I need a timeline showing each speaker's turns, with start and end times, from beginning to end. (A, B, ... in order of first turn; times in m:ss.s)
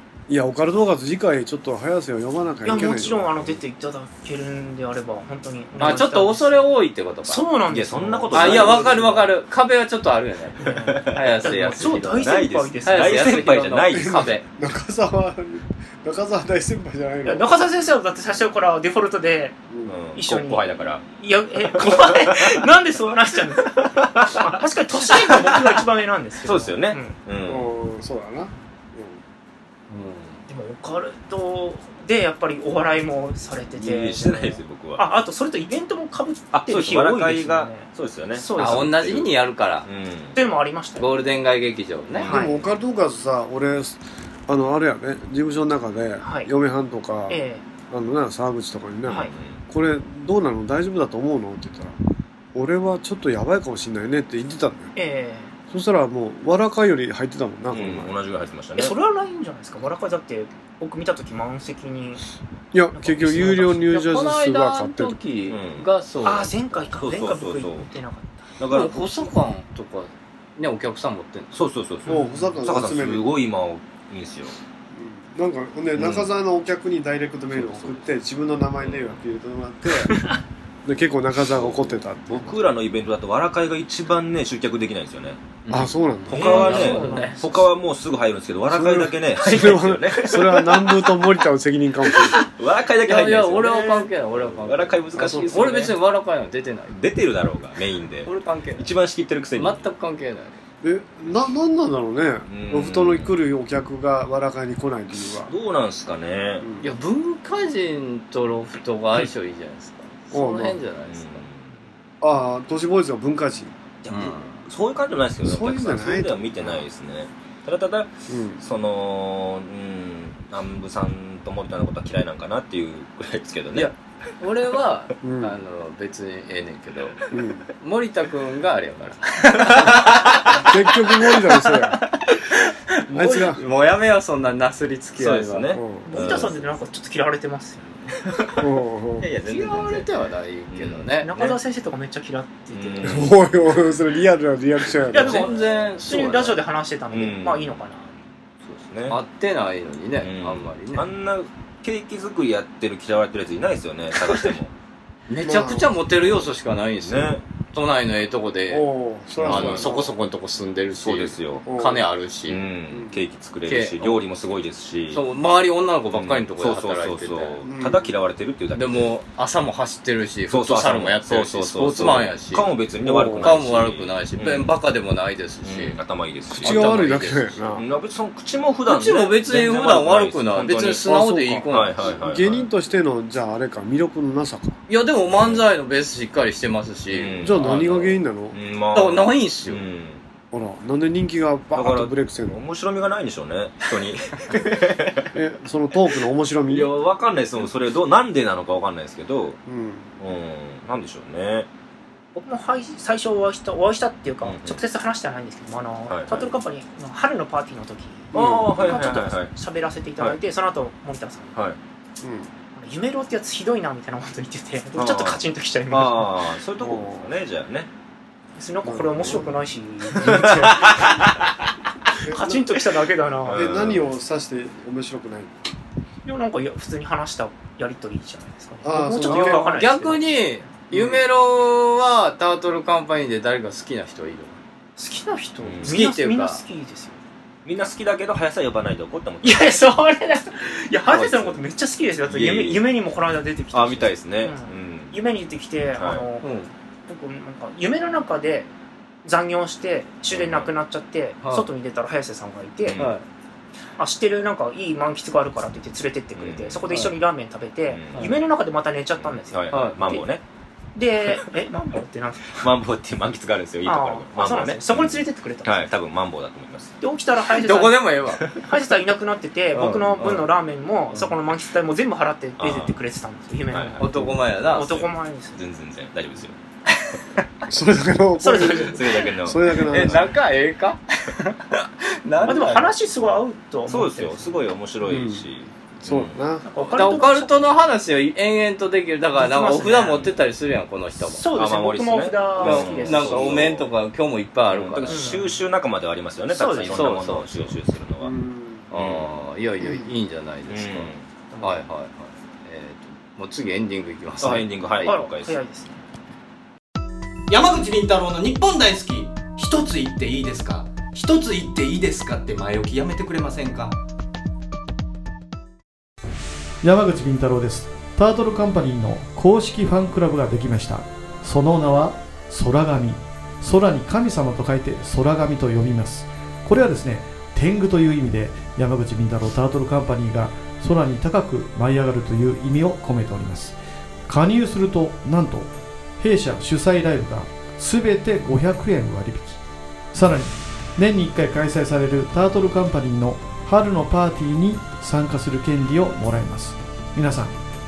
0:00.3-0:03.6 A
0:02.6-0:06.6 B
0:05.8-0:07.4 C
0:07.2-0:09.1 B
0:07.7-0:09.1 D
0:08.3-0:12.3 C
0:08.6-0:08.9 A
0:10.6-0:13.5 B
0:10.7-0:11.2 D
0:12.2-0:14.3 D
0:12.8-0:14.4 C
0:13.9-0:17.5 A
0:17.2-0:19.6 B
0:19.7-0:20.0 A
0:19.9-0:21.0 D
0:20.1-0:20.6 B
0:21.2-0:27.2 B
0:21.7-0:22.6 D
0:23.8-0:25.8 D
0:26.4-0:27.7 D
0:27.4-0:29.2 A
0:29.9-0:30.4 C
0:30.5-0:38.9 B
0:33.7-0:35.0 D
0:36.5-0:39.3 D
0:38.6-0:39.9 C
0:39.8-0:40.4 D
0:40.4-0:41.1 B
0:41.0-0:42.3 C
0:42.2-0:52.0 A
0:42.2-0:42.6 B
0:42.3-0:42.7 D
0:46.2-0:46.5 B
0:47.3-0:47.6 B
0:49.1-0:49.3 B
0:49.1-0:49.6 D
0:52.5-0:54.9 A
0:55.0-0:55.5 B
0:55.7-0:58.1 A
0:57.7-0:58.9 D
0:58.8-1:02.2 B
1:02.7-1:05.2 A
1:02.9-1:04.0 B
1:03.9-1:06.8 C
1:05.5-1:05.9 D
1:06.2-1:08.5 B
1:07.0-1:07.9 D
1:08.6-1:09.1 D
1:08.7-1:11.5 C
1:11.5-1:14.6 D
1:12.0-1:12.4 B
1:12.1-1:13.3 A
1:14.9-1:20.3 A
1:16.0-1:16.3 D
1:17.5-1:18.0 D
1:18.8-1:19.2 D
1:20.8-1:22.6 A
1:21.5-1:25.4 D
1:25.6-1:27.4 C
1:25.7-1:26.9 A
1:26.3-1:30.6 D
1:26.3-1:27.7 B
1:28.7-1:32.4 A
1:32.4-1:36.0 D
1:33.0-1:36.9 C
1:36.9-1:39.8 D
1:38.2-1:38.9 C
1:39.6-1:40.6 C
1:40.8-1:45.5 A
1:42.5-1:43.3 D
1:45.4-1:46.6 D
1:46.6-1:46.9 A
1:46.8-1:51.4 C
1:50.3-1:50.8 A
1:51.1-1:51.7 D
1:52.2-1:53.7 A
1:54.1-1:54.6 C
1:54.1-2:03.9 D
1:55.4-1:56.8 A
1:58.3-1:58.6 A
2:03.7-2:07.2 C
2:05.2-2:05.5 A
2:07.3-2:07.6 A
2:07.8-2:10.7 C
2:10.5-2:12.0 A
2:11.2-2:15.7 C
2:13.1-2:13.6 A
2:15.2-2:16.6 D
2:15.7-2:16.1 A
2:16.0-2:17.9 B
2:18.6-2:19.3 A
2:19.2-2:21.6 C
2:19.5-2:20.0 D
2:20.7-2:21.1 D
2:21.2-2:23.3 B
2:22.7-2:23.4 D
2:23.0-2:25.5 A
2:25.1-2:28.1 B
2:25.1-2:26.6 C
2:27.1-2:27.8 D
2:28.6-2:29.2 D
2:29.1-2:31.1 C
2:30.2-2:34.7 D
2:35.3-2:38.9 C
2:35.4-2:35.9 A
2:36.2-2:36.5 D
2:37.0-2:37.4 D
2:38.7-2:40.1 A
2:39.4-2:39.9 D
2:39.4-2:42.6 C
2:41.0-2:41.6 D
2:41.6-2:42.0 A
2:42.5-2:45.2 D
2:42.9-2:43.2 A
2:43.6-2:44.2 C
2:45.1-2:47.6 C
2:46.1-2:49.1 D
2:47.6-2:48.1 A
2:48.7-2:52.7 C
2:50.5-2:54.7 D
2:53.0-2:53.6 A
2:53.4-2:56.0 C
2:55.6-2:57.2 D
2:56.5-2:57.8 A
2:56.5-2:57.6 C
2:57.7-3:01.1 D
2:58.9-3:02.1 C
3:01.0-3:04.8 A
3:01.7-3:02.7 D
3:04.9-3:08.2 C
3:05.3-3:05.6 D
3:07.1-3:07.9 D
3:07.4-3:08.6 A
3:08.5-3:10.2 D
3:08.9-3:09.8 C
3:10.5-3:12.6 A
3:11.7-3:15.3 D
3:15.3-3:16.9 A
3:16.7-3:19.6 D
3:19.6-3:20.1 A
3:20.2-3:21.7 D
3:22.4-3:31.5 B
3:24.4-3:24.8 D
3:26.1-3:26.5 D
3:28.3-3:29.0 A
3:28.3-3:29.5 D
3:32.2-3:32.5 A
3:32.7-3:36.3 B
3:34.9-3:37.9 D
3:36.8-3:37.3 A
3:38.6-3:41.1 B
3:38.8-3:39.6 A
3:40.2-3:40.9 A
3:40.2-3:41.6 D
3:42.2-3:42.7 A
3:42.3-3:43.7 B
3:43.4-3:44.1 D
3:43.5-3:45.6 A
3:46.2-3:50.2 B
3:48.8-3:49.8 A
3:49.2-3:54.6 C
3:55.0-3:57.2 B
3:55.6-3:56.0 D
3:55.8-3:56.6 C
3:57.6-3:59.8 D
3:59.4-4:06.5 B
4:01.1-4:01.6 D
4:02.2-4:02.8 D
4:03.7-4:05.2 D
4:06.0-4:06.2 D
4:06.4-4:06.7 C
4:07.1-4:08.7 B
4:09.2-4:13.0 B
4:10.3-4:10.7 D
4:11.4-4:11.7 C
4:12.8-4:13.1 D
4:13.0-4:13.2 C
4:14.0-4:20.3 B
4:16.4-4:17.1 D
4:17.9-4:18.4 D
4:19.2-4:20.4 D
4:19.7-4:20.0 C
4:20.9-4:22.7 B
4:22.6-4:27.0 D
4:23.8-4:25.9 B
4:27.0-4:35.6 B
4:27.6-4:28.5 C
4:29.7-4:30.5 C
4:32.6-4:33.0 D
4:33.7-4:34.0 D
4:34.0-4:35.0 C
4:34.8-4:36.6 D
4:36.9-4:37.4 C
4:37.7-4:40.3 A
4:38.4-4:39.3 B
4:38.6-4:40.3 D
4:39.9-4:42.9 C
4:42.5-4:44.6 B
4:43.9-4:47.1 D
4:45.0-4:45.4 A
4:46.0-4:46.7 A
4:46.6-4:47.6 B
4:46.9-4:51.4 C
4:49.3-4:50.3 B
4:51.2-4:53.6 B
4:51.5-4:53.9 D
4:52.6-4:55.3 C
4:54.7-4:58.3 D
4:55.1-4:55.6 B
4:56.5-4:57.1 B
4:56.9-4:57.8 C
4:58.2-4:58.9 A
4:58.9-5:04.7 C
4:58.9-4:59.4 D
4:59.8-5:00.1 A
5:00.7-5:01.2 D
5:01.5-5:01.8 B
5:04.4-5:05.6 D
5:05.0-5:06.0 B
5:07.5-5:14.0 E
5:16.8-5:33.8 F
5:34.3-5:39.6 F
5:40.1-5:47.6 F